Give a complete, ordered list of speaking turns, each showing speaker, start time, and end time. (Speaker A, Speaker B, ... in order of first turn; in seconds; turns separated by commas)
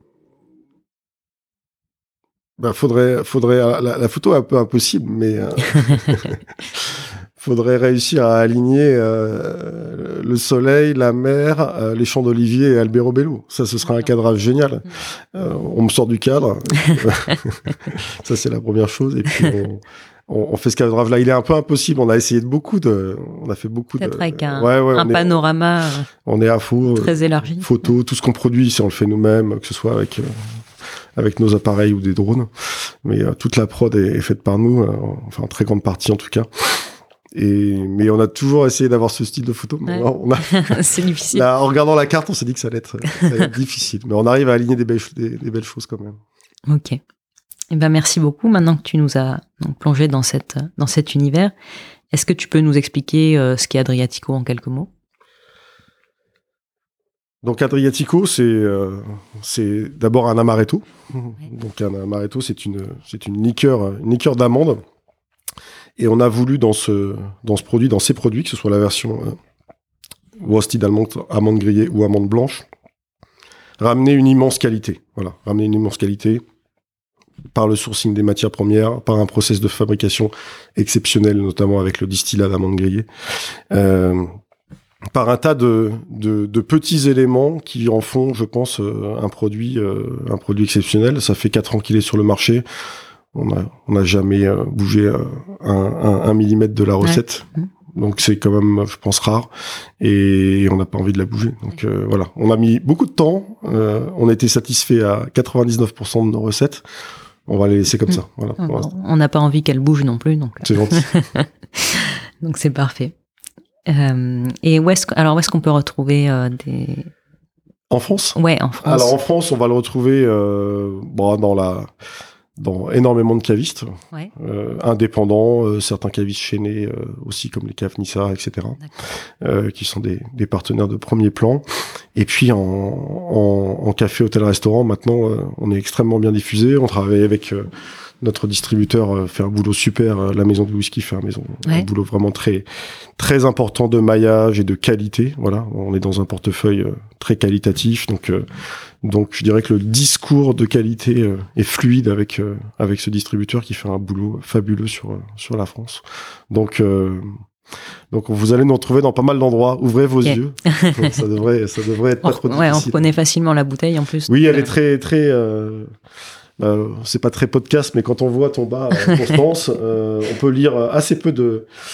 Speaker A: 2.6-25.4, Speaker B: 24.0-26.1, Speaker A: 26.2-30.4, Speaker B: 26.9-27.9, Speaker A: 31.2-40.8, Speaker B: 39.9-41.5, Speaker A: 41.3-46.2, Speaker B: 46.7-47.0, Speaker B: 47.7-51.5, Speaker B: 52.1-54.9, Speaker A: 57.4-64.8, Speaker A: 66.0-69.4, Speaker A: 70.4-72.7, Speaker A: 73.8-76.4, Speaker A: 77.5-84.3, Speaker A: 85.1-92.7, Speaker A: 93.3-99.5, Speaker B: 97.0-97.7, Speaker A: 100.0-106.8, Speaker A: 107.5-108.9, Speaker B: 108.1-113.1, Speaker A: 110.7-111.1, Speaker B: 113.9-117.1, Speaker A: 117.9-121.9, Speaker B: 118.3-119.2, Speaker A: 122.6-128.8, Speaker A: 129.4-131.6, Speaker A: 132.2-137.7, Speaker A: 138.2-142.7, Speaker A: 143.2-148.5, Speaker A: 149.0-157.3, Speaker A: 158.1-163.1, Speaker B: 160.2-161.2, Speaker B: 162.2-164.7, Speaker A: 164.3-165.9, Speaker A: 166.6-171.7, Speaker B: 169.0-169.3